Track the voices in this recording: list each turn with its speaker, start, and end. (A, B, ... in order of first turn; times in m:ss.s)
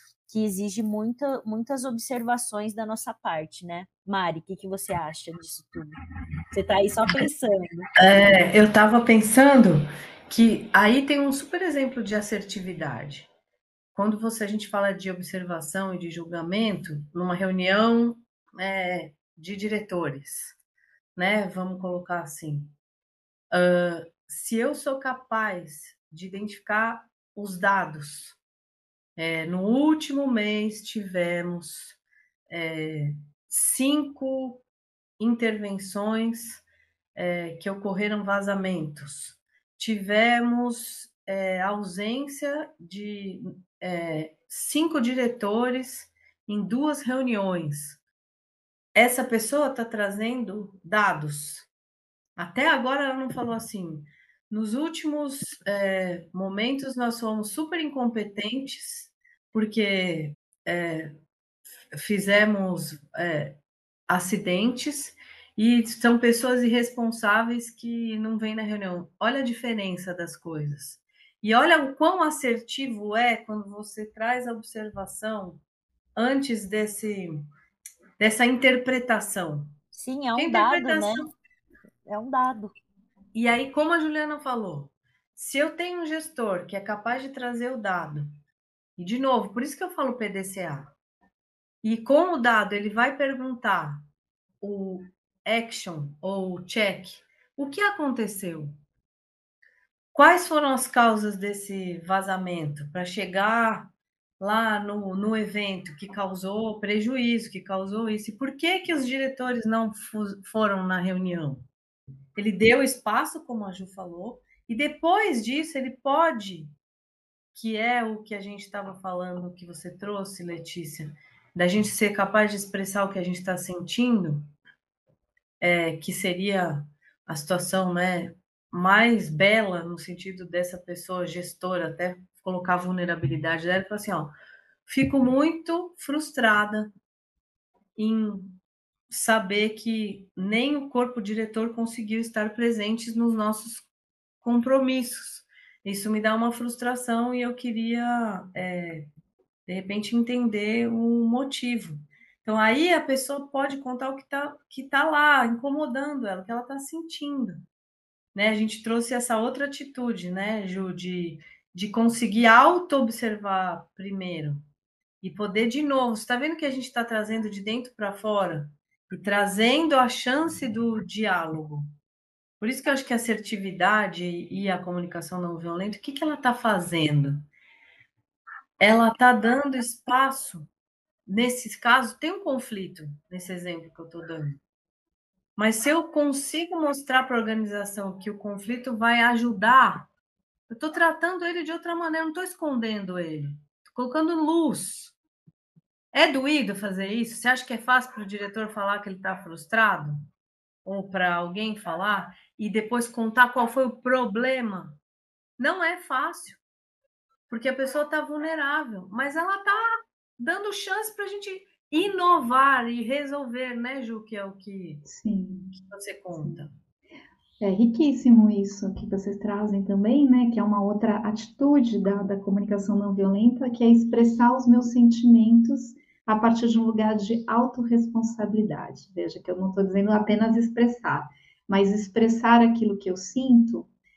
0:00.3-0:06.0 A
0:06.5-0:07.9 A
0:08.0-0:13.3 B
0:14.0-0:20.6 B
0:21.2-0:22.7 B
0:23.5-0:28.4 B
0:29.2-0:34.6 B
0:35.2-0:48.0 B
0:49.0-0:51.7 B
0:52.4-1:01.1 B
1:01.9-1:15.6 B
1:16.2-1:17.3 B
1:18.2-1:19.7 B
1:19.9-1:21.2 A
1:20.4-1:21.3 B
1:22.1-1:22.7 A
1:23.3-1:28.3 B
1:29.0-1:30.9 B
1:31.8-1:34.0 B
1:34.6-1:38.7 B
1:40.1-1:51.6 B
1:52.4-1:56.7 B
1:57.6-2:04.5 B
2:05.6-2:14.3 B
2:14.9-2:16.9 B
2:18.0-2:18.6 B
2:19.1-2:23.9 B
2:24.4-2:29.1 B
2:29.7-2:37.6 B
2:38.3-2:44.6 B
2:45.2-2:51.9 B
2:52.6-2:57.5 B
2:58.8-3:00.7 B
3:01.3-3:04.6 B
3:05.6-3:10.1 B
3:10.7-3:15.2 B
3:16.1-3:20.2 B
3:20.8-3:25.0 B
3:25.6-3:26.6 B
3:27.5-3:35.0 B
3:35.1-3:35.7 C
3:35.8-3:36.7 B
3:36.4-3:36.6 C
3:37.6-3:53.9 C